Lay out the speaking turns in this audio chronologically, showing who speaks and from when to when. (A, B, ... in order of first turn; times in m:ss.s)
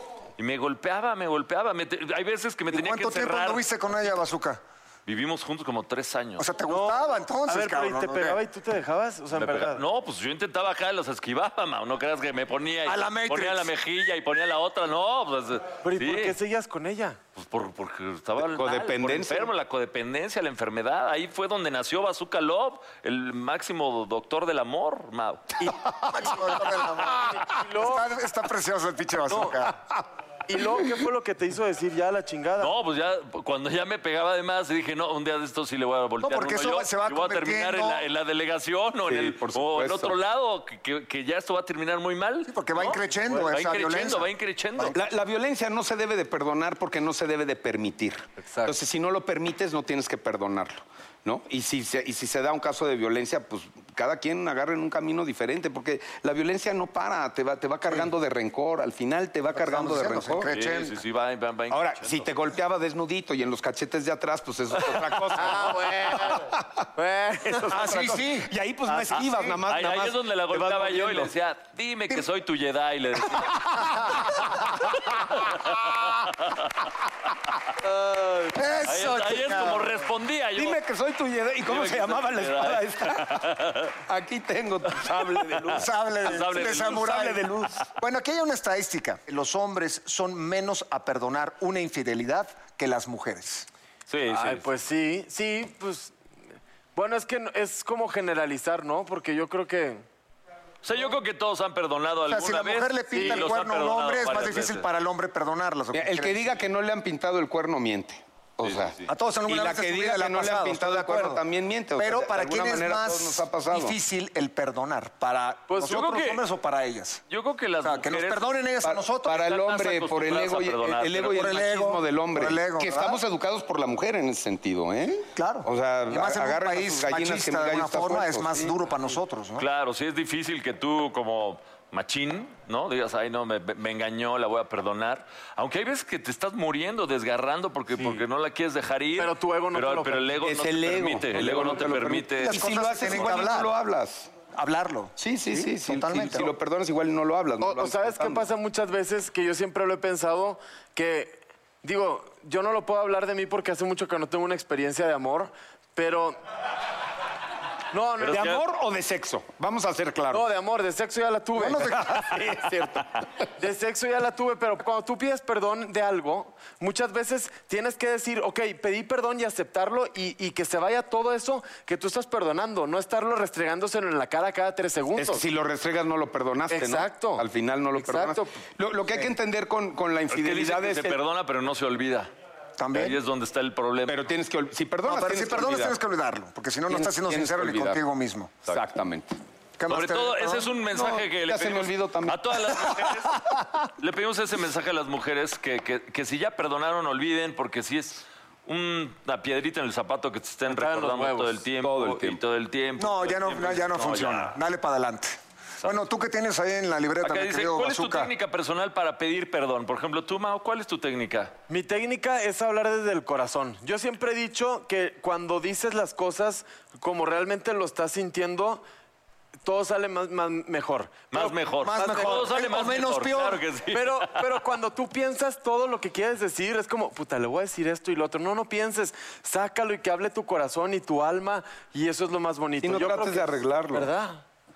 0:00.4-0:04.2 A
0:02.7-0:04.6 B
0:05.1-0:06.5 A
0:06.4-0:08.4 B
0:06.7-0:09.8 C
0:09.3-0:16.4 A
0:12.9-0:13.7 B
0:15.8-0:17.2 C
0:17.4-0:25.5 A
0:18.4-0:19.5 D
0:25.6-0:29.8 B
0:27.1-0:28.1 C
0:29.3-0:29.6 C
0:30.5-0:32.7 C
0:32.6-0:45.0 A
0:36.2-0:38.1 B
0:39.1-0:40.2 D
0:42.4-0:45.0 B
0:44.9-1:00.5 D
0:48.4-0:48.7 C
0:59.5-1:01.0 B
1:00.5-1:02.3 A
1:01.7-1:06.8 D
1:05.4-1:08.2 C
1:07.5-1:11.3 D
1:07.7-1:08.5 B
1:09.1-1:14.3 A
1:15.2-1:16.8 A
1:18.5-1:19.9 B
1:18.8-1:20.8 A
1:20.6-1:23.5 D
1:21.6-1:24.0 A
1:24.1-1:25.9 D
1:25.5-1:27.0 A
1:25.7-1:27.4 B
1:26.5-1:27.8 D
1:28.0-1:33.7 B
1:34.1-1:34.7 A
1:34.3-1:36.1 C
1:37.0-1:40.0 C
1:40.8-1:44.9 A
1:42.3-1:46.6 B
1:43.1-1:43.5 C
1:45.9-1:54.0 D
1:48.6-1:48.9 A
1:49.1-1:51.4 B
1:52.0-1:57.2 B
1:55.7-1:56.0 C
1:55.8-1:56.4 A
1:57.3-1:58.5 A
1:57.8-1:59.5 B
1:58.8-2:08.7 D
1:59.3-2:01.6 A
2:01.2-2:03.2 B
2:05.4-2:09.6 B
2:09.6-2:23.1 A
2:18.0-2:18.2 C
2:19.2-2:20.3 C
2:20.4-2:24.3 D
2:22.4-2:23.7 B
2:24.5-2:26.5 B
2:25.2-2:28.5 D
2:27.6-2:36.4 C
2:37.9-2:38.5 C
2:38.2-2:38.6 A
2:38.3-2:40.4 D
2:40.3-2:42.0 C
2:41.6-2:42.4 B
2:41.9-2:43.2 D
2:43.6-2:55.4 C
2:55.2-3:01.2 D
2:56.7-2:57.4 C
2:58.0-2:58.6 C
3:00.3-3:02.3 A
3:02.8-3:03.2 B
3:02.9-3:04.3 A
3:04.1-3:06.0 D
3:05.0-3:08.6 B
3:06.9-3:08.0 D
3:08.7-3:09.3 D
3:09.8-3:10.7 B
3:09.9-3:24.6 A
3:10.9-3:13.0 D
3:20.7-3:21.6 C
3:21.8-3:22.4 D
3:23.0-3:28.3 B
3:27.2-3:31.5 A
3:31.7-3:38.8 C
3:39.6-3:42.4 C
3:41.3-3:44.4 A
3:41.8-3:43.6 B
3:43.9-3:54.4 C
3:52.8-3:54.1 D